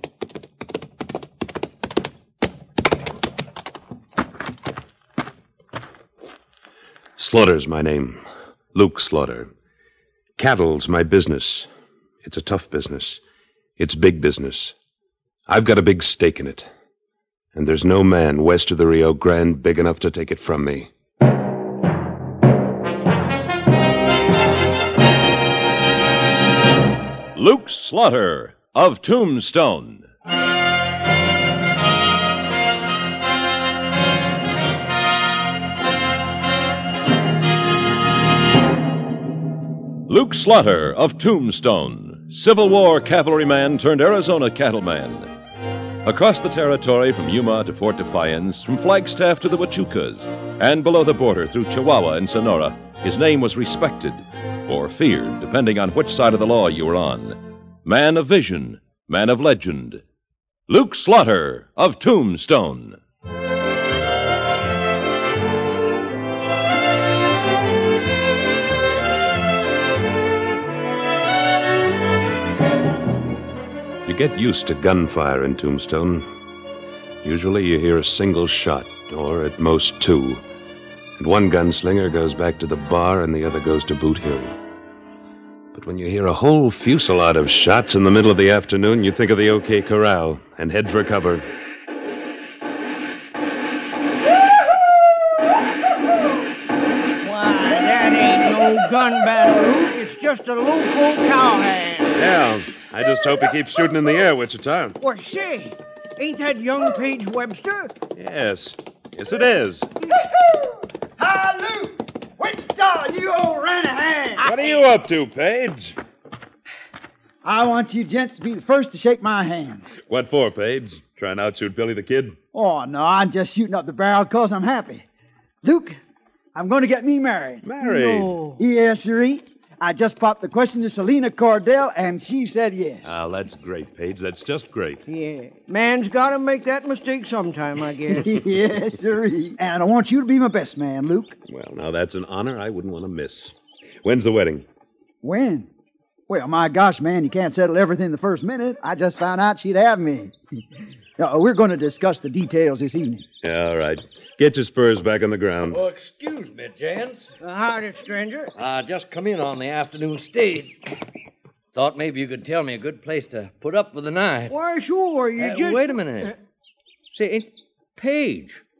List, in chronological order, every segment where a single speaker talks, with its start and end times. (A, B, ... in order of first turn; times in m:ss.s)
0:07.2-0:08.2 A
0:08.7-0:09.5 A
0:10.4-0:11.7 A
0:12.2-0:13.2 A
0:13.8-0:14.7 A
0:15.5-0:16.7 A
0:17.5-0:20.9 A
0:27.3-0:30.0 B
0:40.1-0:45.3 B
0:46.0-1:00.0 B
1:00.7-1:03.0 B
1:14.1-1:16.3 A
1:17.2-1:20.4 A
1:21.2-1:24.6 A
1:25.7-1:31.4 A
1:37.2-1:42.1 C
1:42.2-1:45.0 A
1:45.0-1:47.9 C
1:48.1-1:49.9 A
1:51.2-1:54.5 D
1:54.4-1:56.0 A
1:57.4-1:59.9 D
2:00.1-2:02.4 A
2:02.5-2:05.1 D
2:05.6-2:06.0 D
2:06.6-2:07.6 D
2:07.6-2:08.4 A
2:07.8-2:08.6 C
2:08.6-2:13.1 D
2:13.0-2:15.0 A
2:15.1-2:18.3 C
2:18.1-2:21.4 D
2:21.5-2:24.6 A
2:25.2-2:25.7 D
2:26.3-2:30.3 D
2:31.2-2:33.2 D
2:33.4-2:35.8 A
2:35.7-2:37.3 E
2:37.4-2:38.5 C
2:38.6-2:40.9 E
2:41.7-2:44.6 E
2:44.5-2:46.3 C
2:45.4-2:46.3 E
2:47.1-2:48.6 E